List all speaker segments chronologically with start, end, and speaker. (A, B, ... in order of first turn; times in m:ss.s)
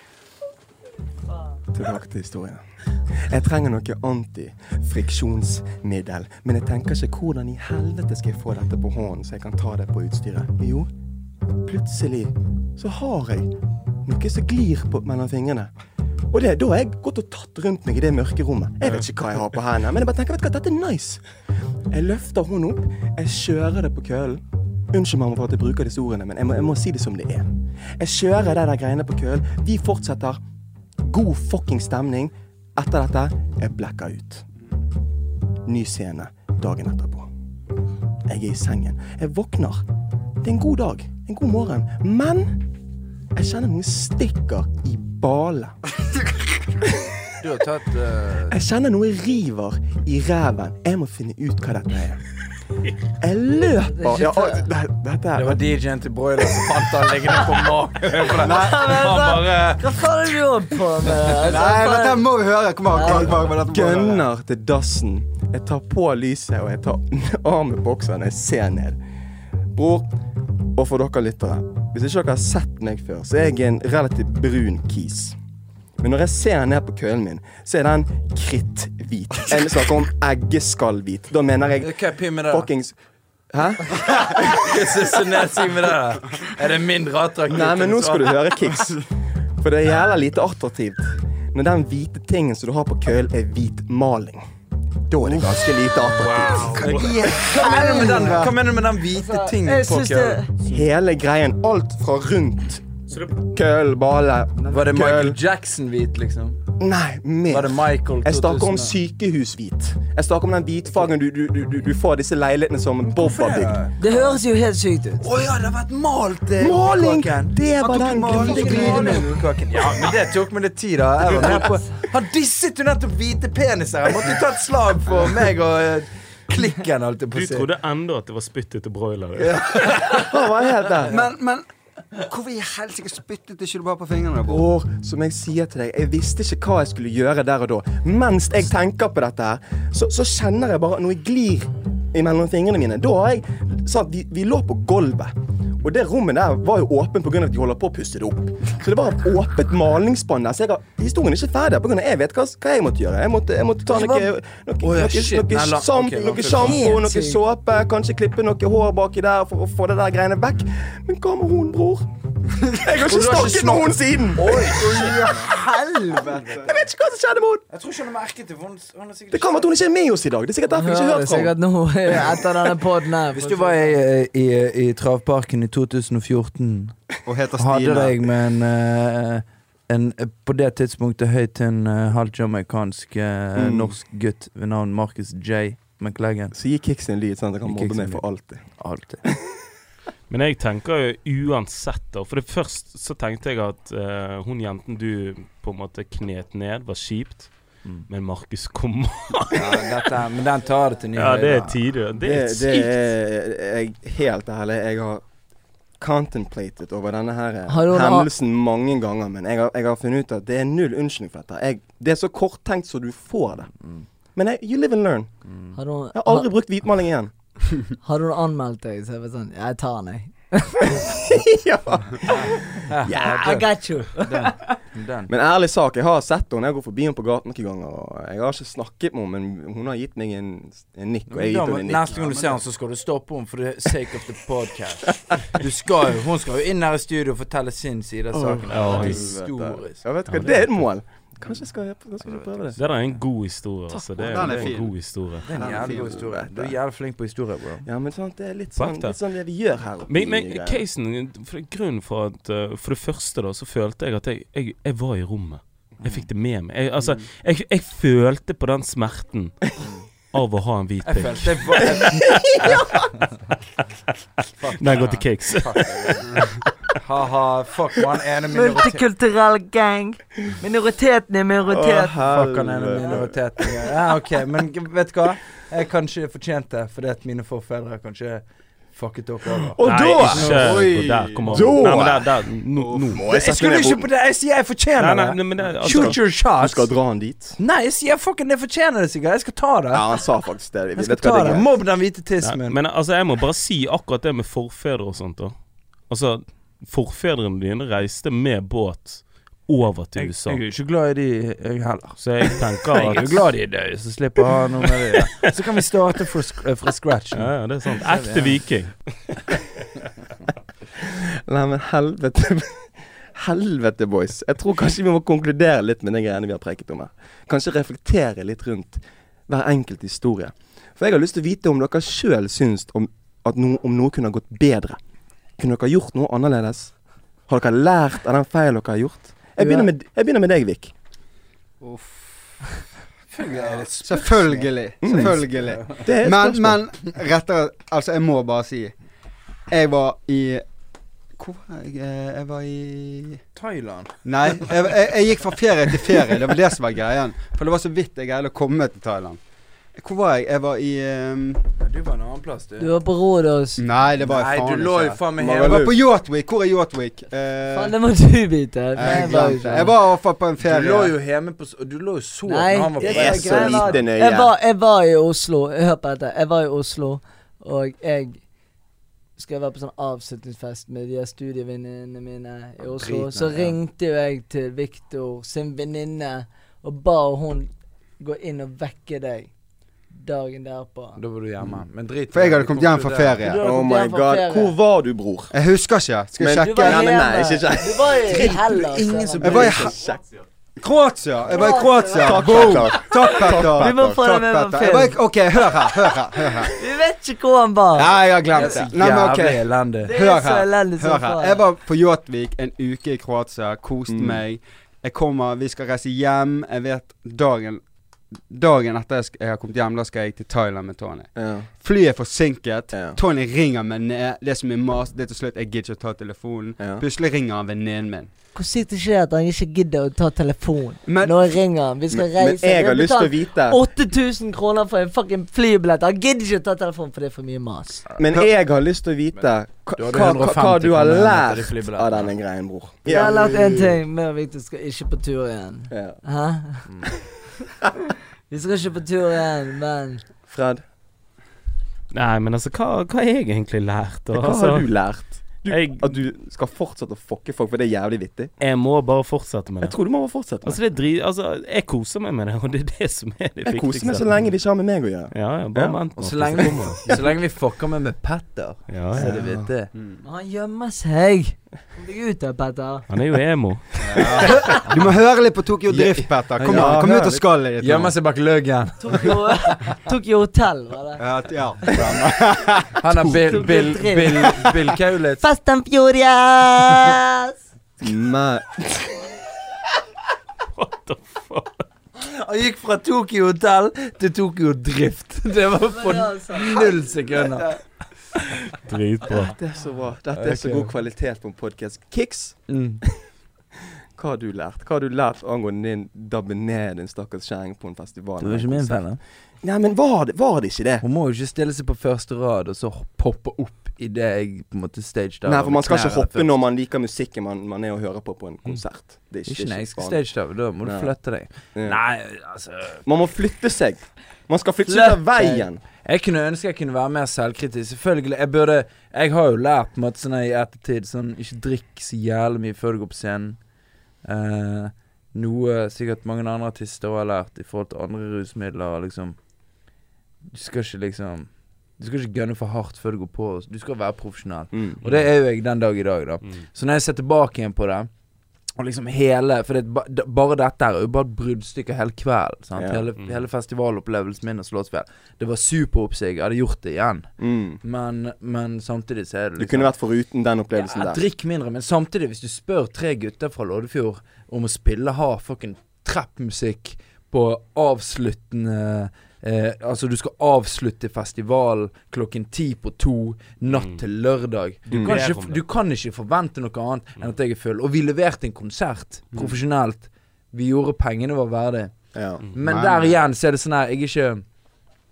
0:01.7-0:10.9 A
0:11.6-0:15.7 A
0:16.3-0:21.2 A
0:21.9-0:30.4 A
0:31.0-0:34.4 A
0:35.6-0:37.3 A
0:38.3-0:39.8 A
0:40.4-0:42.6 A
0:43.3-0:45.8 A
0:47.4-0:48.6 B
0:48.5-0:52.2 A
0:53.2-0:55.6 A
0:53.8-0:54.7 C
0:55.3-1:00.1 B
0:58.4-0:58.8 D
0:58.4-1:02.3 C
1:01.3-1:04.3 D
1:02.9-1:03.4 C
1:03.2-1:09.0 A
1:09.7-1:10.1 A
1:10.7-1:15.4 A
1:16.0-1:23.0 A
1:21.8-1:22.7 B
1:23.5-1:24.8 A
1:24.4-1:28.4 B
1:27.5-1:29.0 A
1:29.6-1:34.4 A
1:35.1-1:36.9 A
1:35.2-1:40.4 B
1:36.2-1:37.1 E
1:36.7-1:38.5 D
1:37.2-1:38.5 C
1:39.0-1:40.5 C
1:40.6-1:45.4 A
1:44.7-1:46.6 B
1:46.8-1:53.8 A
1:47.5-1:49.0 B
1:53.0-1:54.4 B
1:54.0-1:55.3 C
1:55.2-2:07.7 B
1:56.6-1:59.3 A
1:57.8-1:59.3 D
2:07.3-2:10.1 E
2:09.4-2:10.3 B
2:10.1-2:11.1 A
2:11.1-2:14.6 D
2:14.4-2:42.1 A
2:33.8-2:36.9 B
2:36.4-2:37.4 C
2:42.6-2:44.9 A
2:42.9-2:46.6 B
2:44.6-2:46.7 D
2:46.6-2:47.6 A
2:47.7-2:49.7 B
2:49.3-2:51.5 A
2:50.7-2:53.9 C
2:53.3-2:57.0 B
2:57.2-2:58.2 D
2:57.6-3:06.5 B
3:03.6-3:03.9 A
3:06.5-3:09.3 A
3:07.6-3:09.2 B
3:10.3-3:20.0 E
3:19.5-3:21.8 B
3:21.1-3:22.9 E
3:22.2-3:25.2 A
3:26.0-3:33.8 A
3:27.7-3:28.3 C
3:34.3-3:35.3 A
3:35.4-3:35.7 B
3:35.7-3:36.5 C
3:36.1-3:37.3 A
3:38.0-3:41.1 C
3:41.0-3:43.6 A
3:42.9-3:45.3 B
3:43.1-3:44.8 C
3:45.3-3:52.3 A
3:51.3-4:00.0 B
3:52.1-3:52.6 D
3:58.3-4:02.8 A
3:58.7-3:59.3 E
4:00.3-4:00.9 E
4:02.2-4:03.2 B
4:02.8-4:05.5 E
4:04.0-4:04.7 B
4:04.2-4:06.2 D
4:05.4-4:07.8 B
4:05.6-4:06.7 A
4:07.8-4:10.8 A
4:08.8-4:09.2 E
4:10.1-4:21.9 E
4:16.0-4:16.3 B
4:19.8-4:20.0 B
4:21.0-4:23.4 B
4:22.0-4:23.1 A
4:24.6-4:26.2 B
4:24.7-4:26.4 E
4:26.2-4:26.6 D
4:27.0-4:29.0 B
4:28.5-4:32.2 C
4:31.6-4:33.8 A
4:32.2-4:40.9 B
4:39.7-4:40.7 A
4:39.8-4:43.2 E
4:40.4-4:42.0 D
4:41.5-4:42.4 A
4:42.8-4:43.2 D
4:43.1-4:44.1 A
4:43.3-4:47.0 B
4:45.0-4:46.3 E
4:45.8-4:47.6 A
4:47.6-4:50.0 B
4:49.9-4:51.7 A
4:51.0-4:52.8 B
4:52.4-5:00.6 E
5:00.2-5:08.6 B
5:02.2-5:03.7 E
5:07.3-5:09.6 E
5:11.5-5:25.0 A
5:25.6-5:30.9 A
5:29.6-5:29.9 C
5:31.8-5:32.8 D
5:33.3-5:38.9 D
5:33.3-5:35.3 B
5:35.0-5:36.8 A
5:39.7-5:40.7 D
5:41.3-5:43.4 D
5:43.6-5:44.7 B
5:44.2-5:51.6 D
5:51.8-5:52.9 B
5:52.8-5:53.8 C
5:53.8-5:57.9 D
5:54.2-5:55.9 B
5:55.4-5:56.0 A
5:57.7-5:59.9 C
5:59.0-6:01.1 D
5:59.0-6:00.0 B
6:00.6-6:04.0 B
6:02.4-6:08.4 C
6:03.0-6:04.5 A
6:09.4-6:19.5 C
6:12.8-6:13.8 B
6:20.1-6:21.2 C
6:21.1-6:23.5 B
6:22.3-6:23.6 D
6:23.4-6:24.7 C
6:23.6-6:25.5 A
6:25.5-6:27.1 D
6:26.4-6:30.2 A
6:26.6-6:29.9 C
6:28.9-6:29.9 B
6:29.4-6:30.0 D
6:30.8-6:36.7 D
6:31.5-6:32.8 C
6:32.2-6:34.2 A
6:33.8-6:35.2 C
6:36.7-6:38.8 C
6:37.9-6:58.3 D
6:38.5-6:40.1 B
6:40.0-6:41.6 C
6:44.1-6:44.4 A
6:51.3-6:51.7 A
6:52.9-6:53.2 A
6:56.8-6:57.0 A
6:58.5-7:08.0 C
7:01.0-7:01.4 D
7:02.1-7:03.8 A
7:08.2-7:13.9 A
7:10.0-7:12.3 B
7:13.1-7:16.9 C
7:13.1-7:13.8 D
7:15.9-7:16.2 A
7:18.5-7:20.2 C
7:20.5-7:20.8 A
7:22.1-7:26.2 E
7:24.3-7:28.5 A
7:28.6-7:34.4 E
7:29.8-7:30.8 A
7:33.7-7:36.0 A
7:35.3-7:37.2 E
7:36.2-7:39.9 B
7:36.6-7:37.3 A
7:38.9-7:39.4 E
7:39.1-7:39.7 A
7:39.9-7:40.2 D
7:40.2-7:43.1 C
7:43.1-7:44.5 E
7:44.0-7:48.2 D
7:45.9-7:47.0 B
7:46.6-7:47.4 A
7:47.8-7:49.8 B
7:49.0-7:51.2 C
7:51.2-7:53.8 D
7:53.0-7:55.4 B
7:53.3-7:54.7 C
7:55.4-7:57.5 C
7:58.0-7:59.2 A
8:00.6-8:01.9 E
8:02.2-8:07.8 B
8:05.9-8:07.6 C
8:08.8-8:09.6 E
8:09.3-8:12.8 A
8:10.3-8:10.9 B
8:12.7-8:13.0 B
8:14.2-8:21.0 A
8:18.4-8:19.2 B
8:21.0-8:26.6 B
8:25.4-8:32.1 A
8:29.4-8:33.0 B
8:33.0-8:35.8 A
8:34.8-8:43.6 B
8:44.2-8:49.4 B
8:50.5-8:58.1 B
8:54.7-8:55.0 A
8:58.8-9:07.3 B
9:02.8-9:03.0 A
9:03.2-9:03.4 E
9:07.4-9:07.8 A
9:07.8-9:09.9 B
9:09.6-9:11.2 A
9:10.7-9:34.5 B
9:23.7-9:24.0 E
9:24.9-9:25.6 E
9:24.9-9:25.2 A
9:29.3-9:29.6 D
9:32.1-9:32.5 A
9:32.6-9:33.2 D